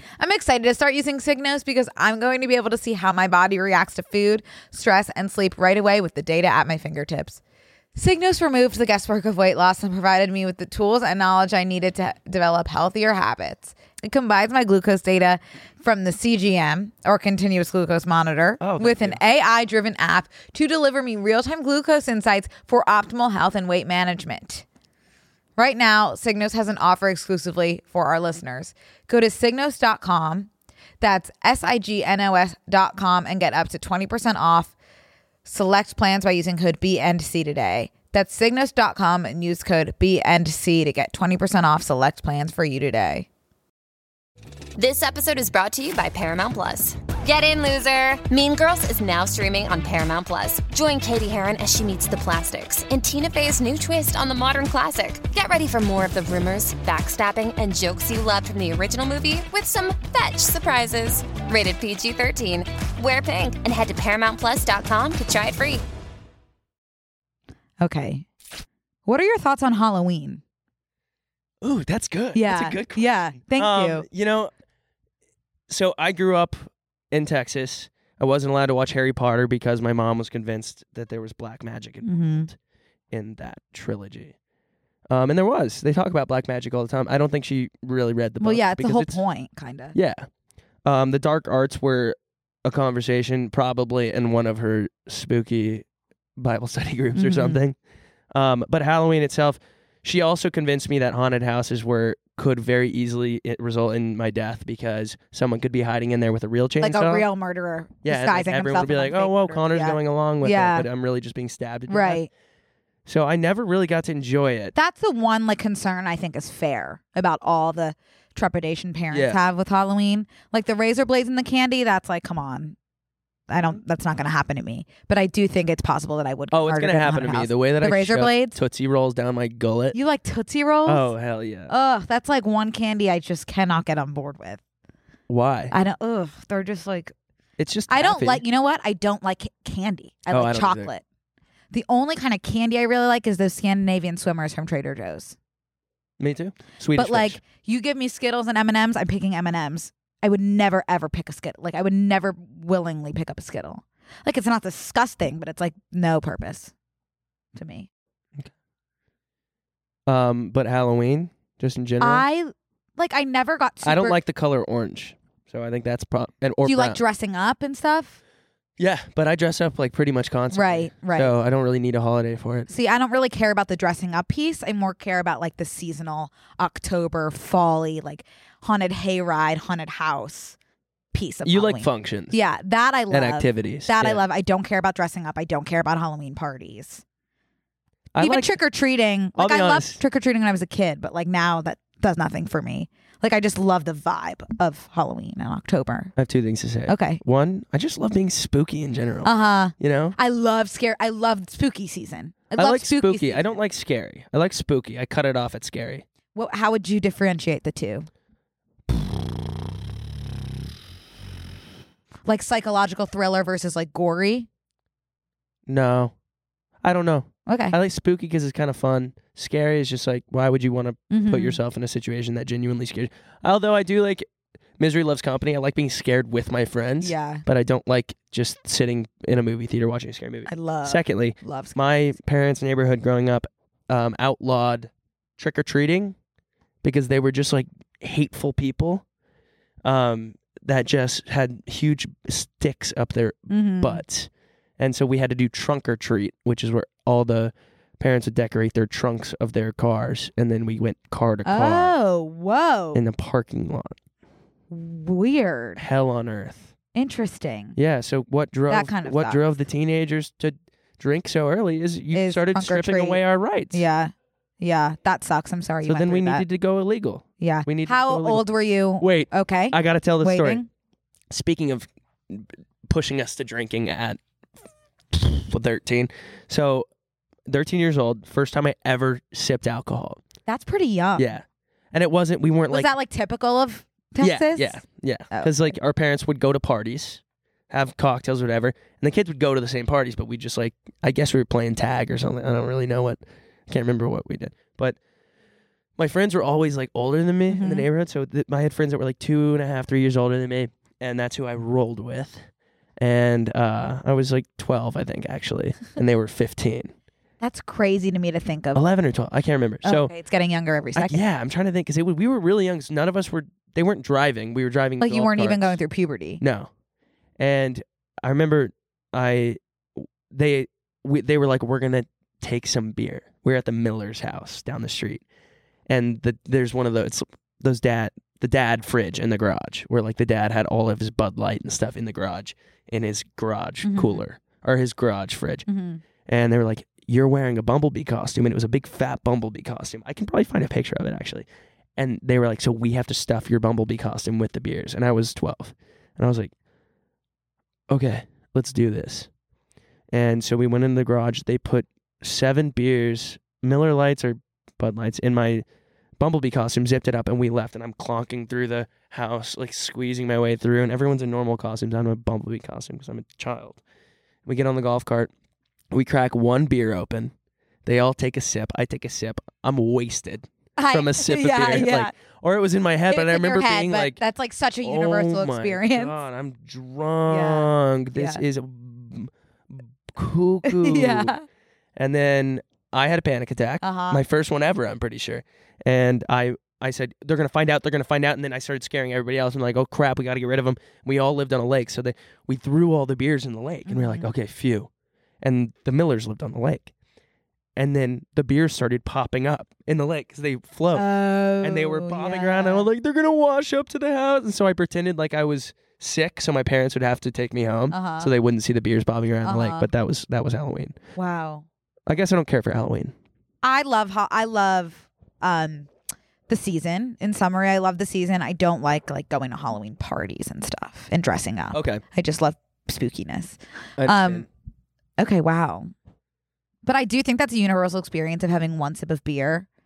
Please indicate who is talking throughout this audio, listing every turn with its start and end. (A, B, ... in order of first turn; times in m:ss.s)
0:00.2-0:07.4 A
0:08.0-0:24.6 A
0:18.6-0:19.2 B
0:25.6-0:30.5 A
0:31.0-0:34.7 A
0:35.4-0:43.3 A
0:44.8-1:05.8 C
1:07.8-1:08.3 A
1:09.0-1:10.4 A
1:11.6-1:14.5 B
1:12.3-1:14.0 A
1:15.7-1:22.5 B
1:22.0-1:22.5 A
1:23.1-1:24.3 B
1:25.1-1:29.2 B
1:28.4-1:29.9 A
1:29.9-1:30.3 B
1:30.8-1:35.8 B
1:36.4-1:37.8 B
1:37.2-1:37.6 A
1:38.3-1:47.2 B
1:46.8-1:50.9 A
1:48.0-1:52.2 B
1:51.9-1:52.3 A
1:53.0-1:54.7 B
1:54.7-2:02.8 A
1:59.1-1:59.4 B
2:03.5-2:08.6 A
2:06.5-2:10.0 B
2:09.9-2:11.1 A
2:10.8-2:11.7 B
2:11.7-2:14.6 A
2:15.3-2:15.7 B
2:15.7-2:17.1 A
2:17.6-2:18.4 B
2:17.9-2:21.0 A
2:20.3-2:20.9 B
2:21.7-2:25.4 A
2:26.2-2:27.4 B
2:26.9-2:36.7 A
2:37.6-2:37.9 A
2:40.1-2:42.2 B
2:42.0-2:44.2 A
2:43.8-2:47.0 B
2:46.6-2:48.2 A
2:48.8-2:52.7 B
2:50.5-2:51.3 A
2:52.7-3:00.6 A
3:01.1-3:07.0 A
3:01.4-3:02.4 B
3:03.1-3:04.2 B
3:08.1-3:08.6 B
3:08.2-3:16.1 A
3:09.4-3:10.0 B
3:16.2-3:20.2 B
3:16.9-3:17.2 A
3:19.2-3:23.6 A
3:22.6-3:26.0 B
3:26.3-3:28.1 A
3:32.2-3:34.5 A
3:35.7-3:36.1 B
3:36.8-3:56.2 B
3:37.5-3:37.8 A
3:41.1-3:41.6 A
3:47.0-3:47.4 A
3:50.4-3:52.1 A
3:56.8-3:59.0 B
3:59.8-4:11.9 B
4:03.5-4:04.0 A
4:11.4-4:13.0 A
4:12.9-4:13.9 B
4:14.7-4:15.8 A
4:15.8-4:16.7 B
4:16.9-4:17.8 A
4:17.8-4:23.8 B
4:18.7-4:19.4 A
4:22.1-4:26.4 A
4:25.8-4:30.6 B
4:27.4-4:30.7 A
4:31.3-4:34.2 B
4:35.1-4:36.9 B
4:37.5-4:40.2 B
4:40.5-4:41.3 A
4:41.2-4:42.9 B
4:42.7-4:45.7 A
4:44.2-4:55.0 B
4:56.0-5:02.5 B
4:57.5-4:57.9 A
5:03.0-5:06.9 B
5:07.4-5:08.8 A
5:08.7-5:10.1 B
5:09.8-5:11.2 A
5:10.9-5:15.8 B
5:15.0-5:16.4 A
5:16.4-5:16.7 B
5:17.4-5:25.2 B
5:25.9-5:35.6 B
5:33.8-5:34.2 A
5:35.7-5:36.0 A
5:36.2-5:46.5 B
5:47.9-5:49.3 B
5:50.1-5:55.6 B
5:56.2-6:03.8 B
6:04.4-6:05.3 B
6:05.9-6:07.3 B
6:07.8-6:14.2 B
6:10.8-6:12.1 A
6:13.1-6:16.2 A
6:14.8-6:21.3 B
6:17.3-6:18.4 A
6:20.6-6:21.4 A
6:22.0-6:34.9 B
6:23.8-6:24.2 A
6:33.9-6:34.3 A
6:35.4-6:36.9 B
6:37.8-6:51.0 B
6:40.9-6:42.9 A
6:47.9-6:48.3 A
6:49.4-6:49.9 A
6:51.2-6:51.6 A
6:52.1-6:53.1 B
6:53.6-6:55.9 A
6:56.5-7:04.5 A
7:01.7-7:02.0 B
7:04.0-7:04.5 B
7:05.2-7:05.9 A
7:06.8-7:09.6 A